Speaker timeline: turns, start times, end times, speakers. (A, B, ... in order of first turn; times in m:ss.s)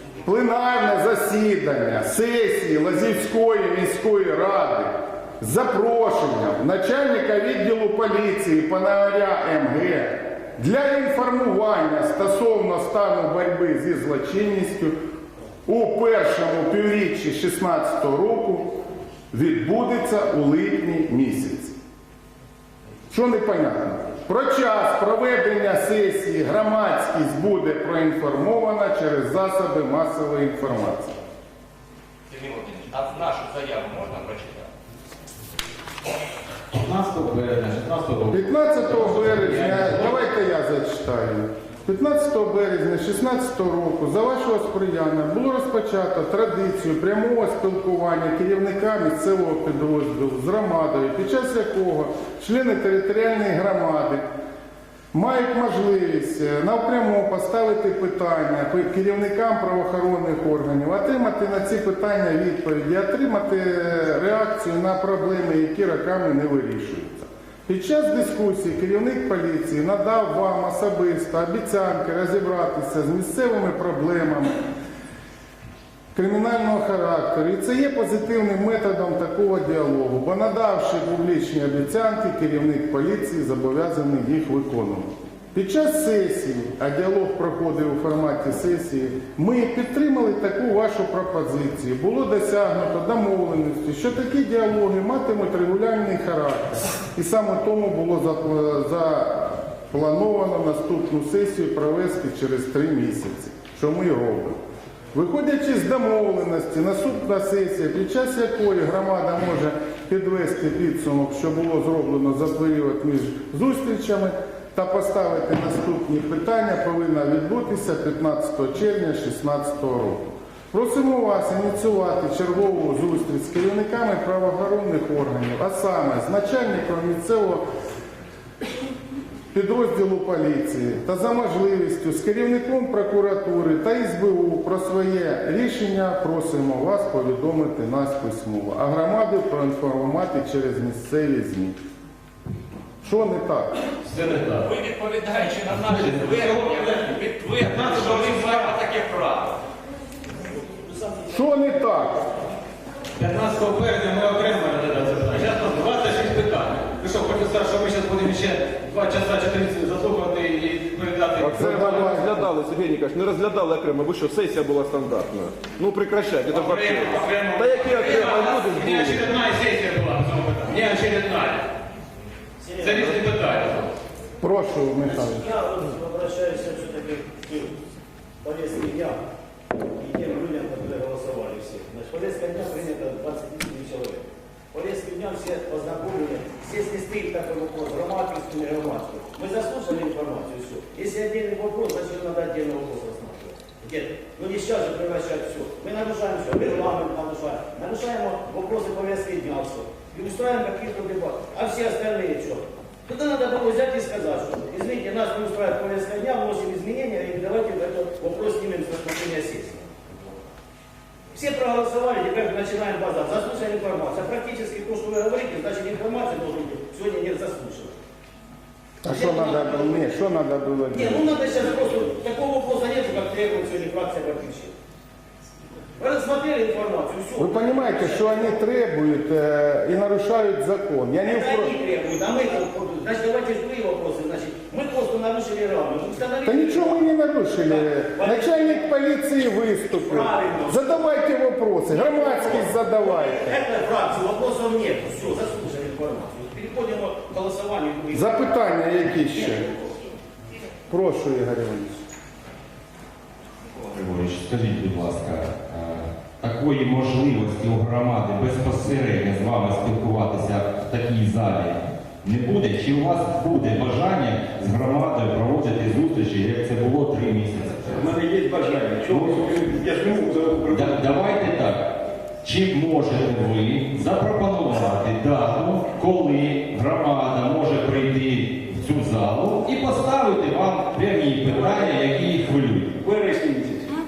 0:00.2-0:15.0 A
0:15.6-0:18.8 A
0:19.3-0:21.8 A
0:23.1-0:31.1 A
0:32.3-0:34.7 B
0:32.4-0:34.4 C
0:36.7-0:40.2 D
0:38.3-0:54.2 A
0:55.1-1:14.5 A
1:16.1-1:44.6 A
1:45.1-2:07.6 A
2:09.5-2:21.8 A
2:23.0-2:23.7 A
2:24.0-2:24.7 D
2:24.7-2:29.6 C
2:25.4-2:25.8 B
2:25.8-2:27.0 D
2:27.6-2:28.5 D
2:28.2-2:28.6 E
2:30.6-2:31.2 E
2:31.3-2:32.2 A
2:33.2-2:41.9 D
2:41.4-2:49.1 F
2:41.5-2:42.4 A
2:46.5-2:51.6 D
2:47.0-2:49.1 C
2:52.6-2:53.2 E
2:52.8-2:53.9 D
2:54.4-2:55.5 A
2:55.0-2:57.8 E
2:58.4-2:59.2 E
2:59.7-3:29.9 E
3:31.3-3:37.9 E
3:39.0-3:41.4 A
3:39.0-3:40.1 E
3:40.9-3:44.7 E
3:46.0-3:48.6 E
3:47.4-3:51.7 A
3:51.2-3:57.1 E
3:56.4-4:03.6 A
3:57.6-3:58.9 E
4:00.0-4:01.0 E
4:01.9-4:08.6 E
4:08.1-4:09.6 A
4:09.3-4:09.9 E
4:10.9-4:12.0 A
4:13.8-4:28.1 B
4:27.9-4:31.4 G
4:29.1-4:29.5 B
4:30.6-4:43.0 B
4:41.4-4:42.0 G
4:43.0-4:44.0 G